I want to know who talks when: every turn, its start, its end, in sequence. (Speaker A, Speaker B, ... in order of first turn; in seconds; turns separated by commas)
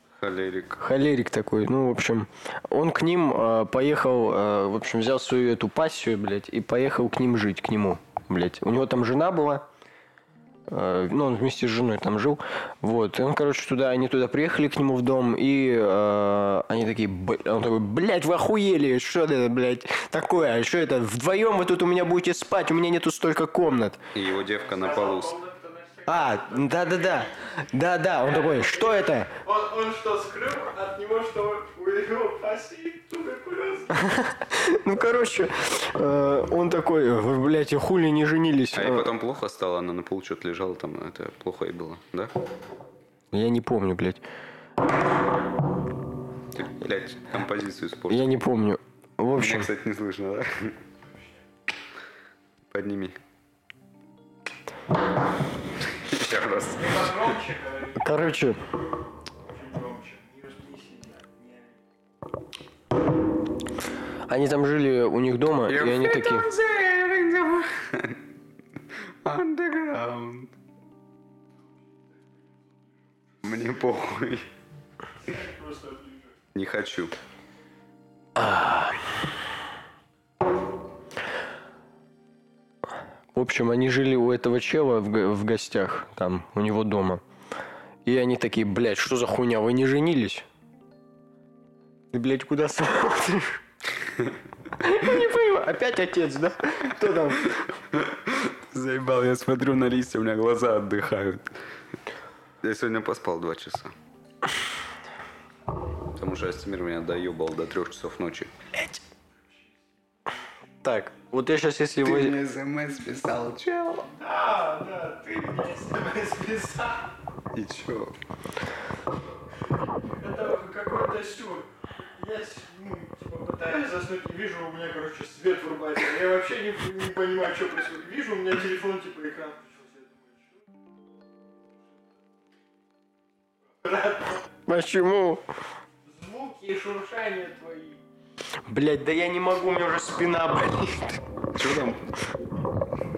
Speaker A: 0.2-0.8, Speaker B: 0.8-9.7, Speaker B: 10.7-24.0, Speaker A: 24.1-25.4, Speaker C: 24.5-27.6, Speaker B: 26.1-29.3, Speaker C: 28.2-34.1, Speaker B: 34.0-39.1, Speaker A: 38.7-42.3, Speaker B: 43.3-44.2, Speaker A: 46.5-48.3, Speaker B: 48.1-49.7, Speaker A: 49.3-50.8, Speaker A: 52.7-53.2, Speaker A: 55.9-57.4, Speaker C: 56.8-58.2, Speaker B: 58.0-58.6, Speaker C: 59.4-61.8, Speaker B: 64.3-66.5, Speaker A: 65.7-68.2, Speaker A: 69.2-70.5, Speaker C: 72.2-73.7, Speaker A: 73.4-74.5, Speaker C: 75.2-76.3, Speaker A: 76.5-77.2, Speaker B: 78.4-79.1, Speaker B: 83.3-87.2, Speaker B: 88.0-90.5, Speaker B: 92.1-93.6, Speaker A: 94.1-94.3, Speaker B: 94.8-97.6, Speaker A: 97.9-101.5, Speaker A: 102.6-104.0, Speaker A: 106.1-108.5, Speaker B: 110.8-112.3, Speaker A: 112.0-114.1, Speaker C: 114.1-117.1, Speaker A: 117.5-118.2, Speaker C: 120.0-130.6, Speaker C: 133.8-134.4, Speaker B: 134.7-135.4, Speaker C: 136.0-138.0, Speaker B: 138.7-141.2, Speaker A: 141.5-142.2